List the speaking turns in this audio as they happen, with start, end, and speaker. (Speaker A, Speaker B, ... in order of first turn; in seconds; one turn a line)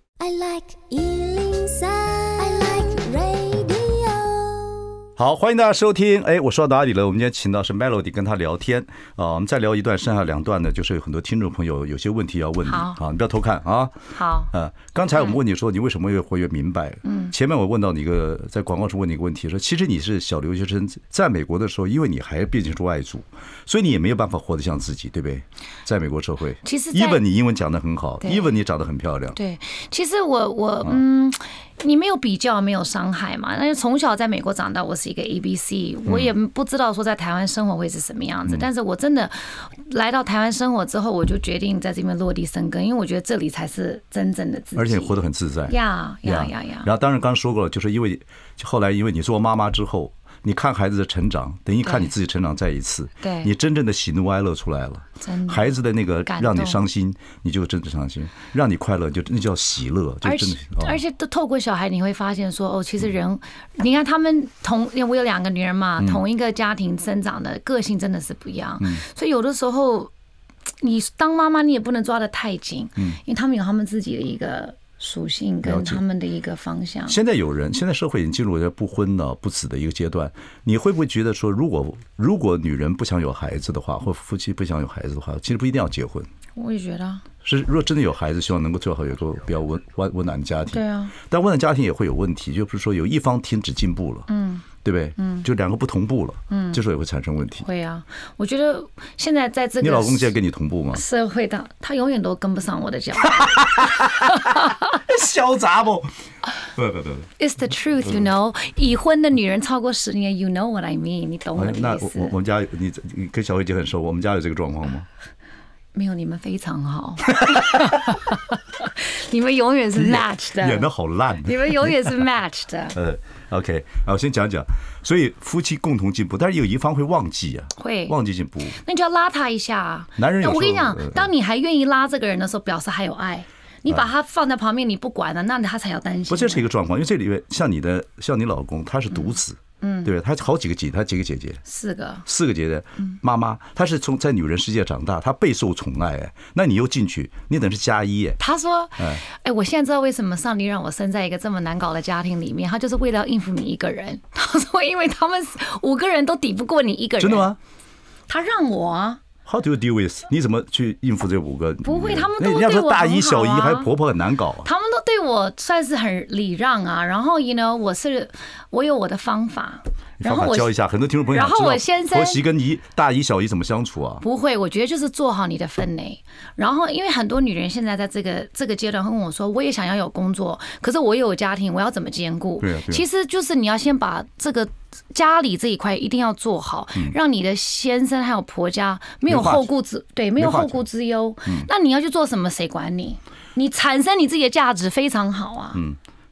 Speaker A: 0.2-4.9
Speaker B: 5.2-13.9
Speaker C: 12.6-13.0
Speaker C: 14.1-14.5
Speaker B: 14.5-29.4
Speaker C: 17.0-17.3
Speaker C: 26.6-27.2
Speaker C: 28.2-28.6
Speaker C: 29.3-45.1
Speaker B: 44.8-61.0
Speaker C: 45.7-46.9
Speaker C: 51.8-52.1
Speaker C: 53.2-53.5
Speaker C: 55.2-56.9
Speaker C: 60.2-70.1
Speaker C: 70.8-77.2
Speaker B: 75.6-76.0
Speaker B: 77.1-86.3
Speaker C: 86.5-87.2
Speaker B: 87.4-94.3
Speaker C: 90.7-91.1
Speaker C: 94.3-95.5
Speaker B: 94.8-97.7
Speaker C: 96.5-96.8
Speaker C: 97.6-100.3
Speaker B: 99.8-101.0
Speaker C: 100.9-105.0
Speaker B: 103.4-106.1
Speaker B: 106.8-107.3
Speaker C: 107.4-112.3
Speaker B: 111.5-115.0
Speaker C: 115.9-120.9
Speaker B: 117.4-117.8
Speaker B: 119.9-122.2
Speaker C: 121.4-123.0
Speaker B: 122.9-128.8
Speaker C: 127.8-128.1
Speaker C: 128.7-136.7
Speaker B: 130.2-131.3
Speaker B: 136.3-141.6
Speaker C: 139.1-140.1
Speaker C: 141.6-142.2
Speaker B: 142.2-148.4
Speaker C: 148.4-157.5
Speaker B: 157.2-157.6
Speaker C: 158.3-159.2
Speaker B: 159.4-164.7
Speaker C: 161.8-163.9
Speaker C: 164.6-170.7
Speaker B: 170.2-174.2
Speaker C: 171.3-172.4
Speaker C: 174.2-195.8
Speaker B: 182.6-183.0
Speaker B: 189.3-189.7
Speaker B: 190.4-190.8